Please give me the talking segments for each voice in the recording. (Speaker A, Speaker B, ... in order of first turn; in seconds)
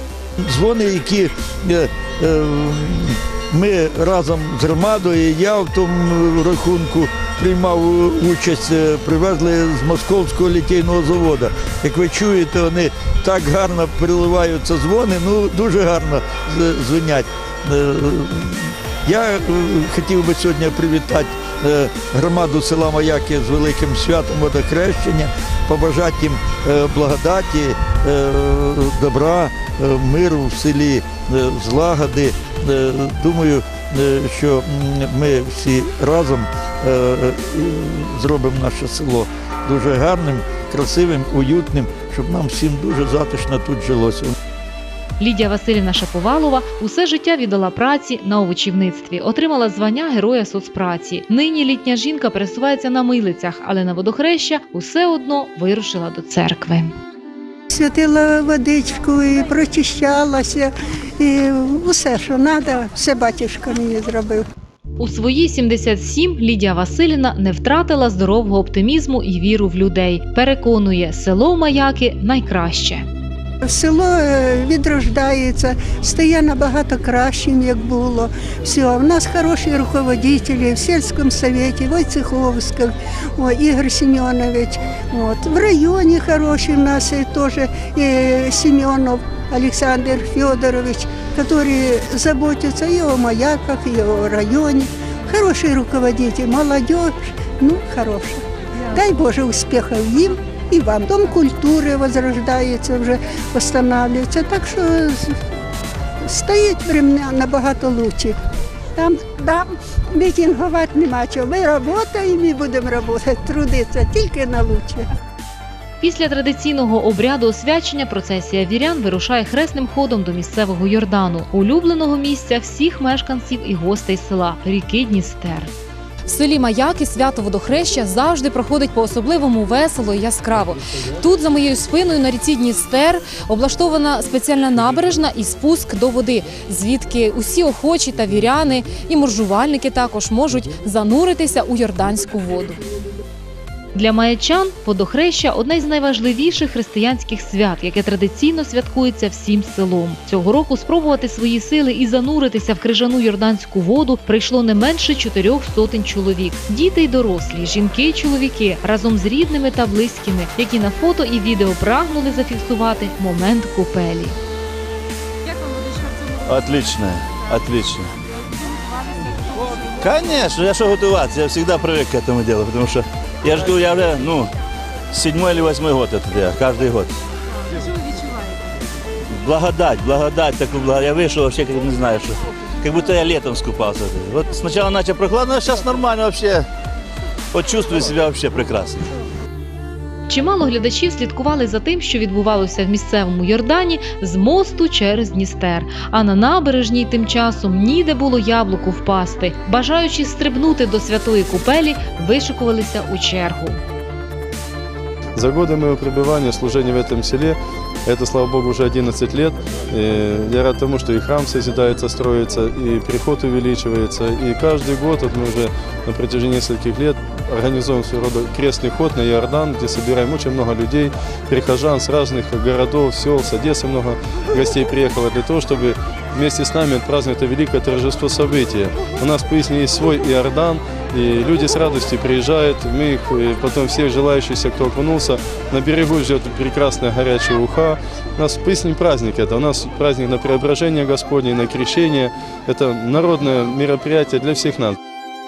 Speaker A: 0.4-44.3
Speaker B: 45.2-56.9, 65.0-73.0, 116.0-125.7, 143.9-164.4, 190.3-203.8
Speaker C: 57.7-64.5, 73.6-105.3, 106.2-108.4, 109.0-115.0
Speaker D: 126.3-142.8
Speaker E: 166.4-168.1, 169.6-174.5, 175.1-177.2, 179.4-186.7, 187.5-189.1
Speaker F: 205.3-245.0